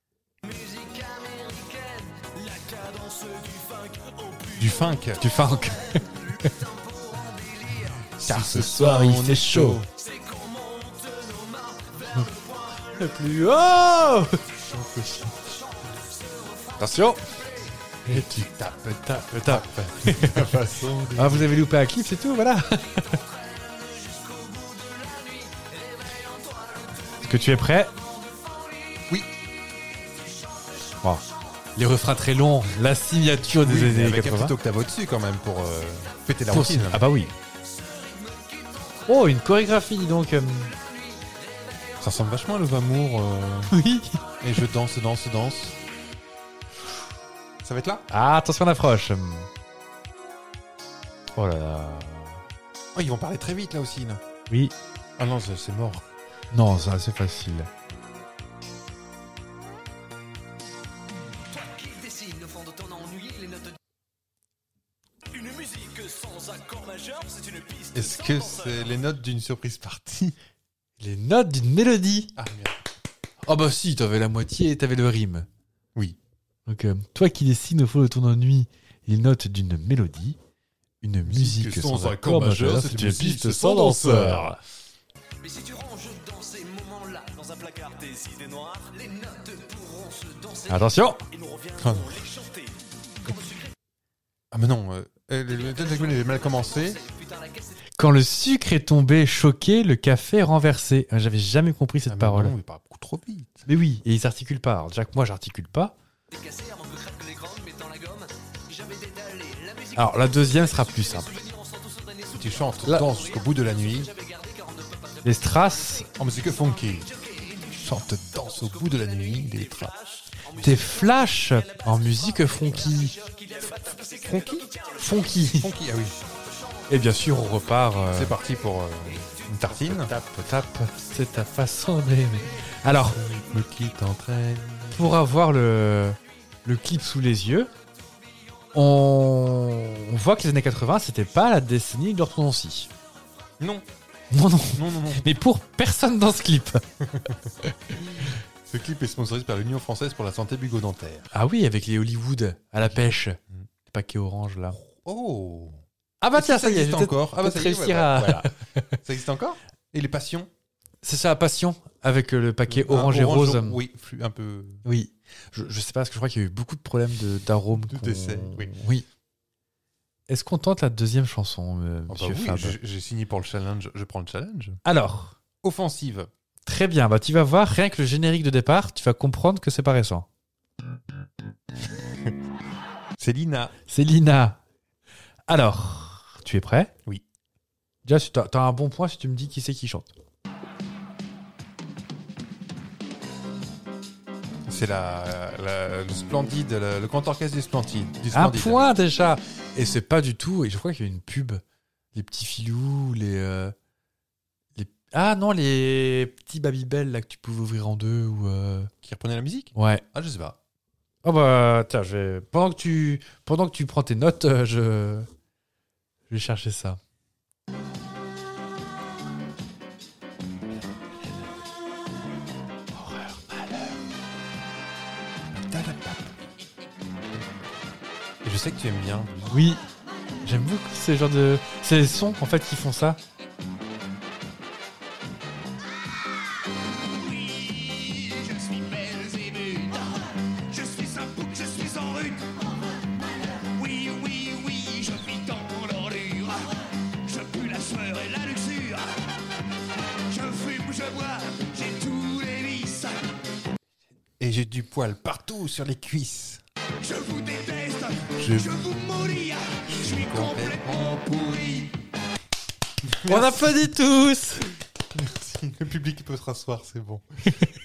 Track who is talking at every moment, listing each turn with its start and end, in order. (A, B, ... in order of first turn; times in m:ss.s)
0:00.4-0:08.1 A
0:04.6-0:05.2 B
0:05.2-0:06.0 C
0:08.2-0:09.9 B
0:08.2-0:09.8 C
0:10.0-0:13.3 A
0:13.0-0:14.4 C
0:14.7-0:15.3 B
0:15.3-0:17.7 A
0:16.8-0:17.2 C
0:18.0-0:18.4 C
0:18.0-0:21.5 B
0:19.1-0:20.5 C
0:21.1-0:23.1 C
0:22.9-0:29.1 A
0:27.2-0:27.9 C
0:30.0-0:30.9 A
0:31.8-0:34.5 C
0:33.6-0:37.0 B
0:36.5-0:37.3 C
0:37.6-0:39.3 A
0:39.1-0:40.7 C
0:40.7-0:42.0 A
0:42.0-0:43.7 B
0:43.7-0:44.2 C
0:44.4-0:45.8 B
0:47.6-0:48.0 B
0:48.1-0:49.5 C
0:51.4-0:52.4 C
0:52.9-0:54.2 B
0:55.2-0:56.0 B
0:56.5-0:57.7 C
1:01.5-1:03.8 A
1:05.3-1:09.0 A
1:07.9-1:10.4 B
1:11.0-1:12.3 C
1:12.4-1:12.8 B
1:13.4-1:15.5 C
1:16.7-1:20.4 C
1:21.0-1:24.6 C
1:21.2-1:24.6 B
1:25.4-1:33.7 A
1:30.7-1:31.2 C
1:31.8-1:32.2 B
1:34.5-1:37.0 B
1:35.5-1:37.8 A
1:38.0-1:42.5 C
1:42.1-1:43.6 B
1:43.7-1:45.9 C
1:46.3-2:05.5 A
1:49.9-1:51.3 C
1:52.3-1:54.1 B
1:55.2-1:56.0 C
1:56.2-1:57.1 B
1:57.7-1:59.9 B
2:00.6-2:03.2 C
2:04.2-2:04.7 B
2:05.0-2:05.7 C
2:05.6-2:06.1 B
2:06.2-2:06.8 A
2:06.9-2:08.3 C
2:08.1-2:10.1 B
2:09.2-2:09.5 A
2:09.7-2:13.2 C
2:13.1-2:15.1 B
2:14.9-2:17.7 C
2:18.7-2:22.9 C
2:23.6-2:23.9 B
2:24.3-2:26.8 C
2:24.7-2:25.3 B
2:27.1-2:27.3 B
2:27.6-2:27.9 C
2:28.0-2:31.3 B
2:31.3-2:33.4 C
2:33.9-2:34.8 C
2:34.8-2:35.8 B
2:36.2-2:39.0 C
2:36.3-2:40.5 B
2:41.0-2:43.8 C
2:42.7-2:44.8 B
2:44.8-2:49.0 C
2:47.9-2:48.7 B
2:50.3-2:52.8 C
2:52.1-2:54.8 B
2:54.8-2:55.4 C
2:55.6-2:56.3 B
2:56.6-3:00.2 C
3:03.2-3:03.7 B
3:03.9-3:04.6 C
3:05.5-3:06.9 C
3:08.0-3:10.1 C
3:14.6-3:18.8 B
3:18.3-3:21.6 C
3:22.1-3:23.7 C
3:24.8-3:28.9 C
3:29.0-3:30.6 B
3:29.7-3:30.0 C
3:31.2-3:35.3 C
3:36.3-3:37.0 C
3:42.9-3:44.0 C
3:45.6-3:46.3 B
3:48.4-3:49.6 B
3:49.5-3:49.8 C
3:50.4-3:53.2 C
3:57.2-4:02.5 A
4:03.4-4:09.2 A
4:10.3-4:13.3 A
4:14.4-4:16.6 B
4:17.0-4:21.9 A
4:18.4-4:18.8 B
4:20.0-4:21.8 B
4:23.0-4:23.9 B
4:23.3-4:24.7 C
4:25.1-4:27.2 B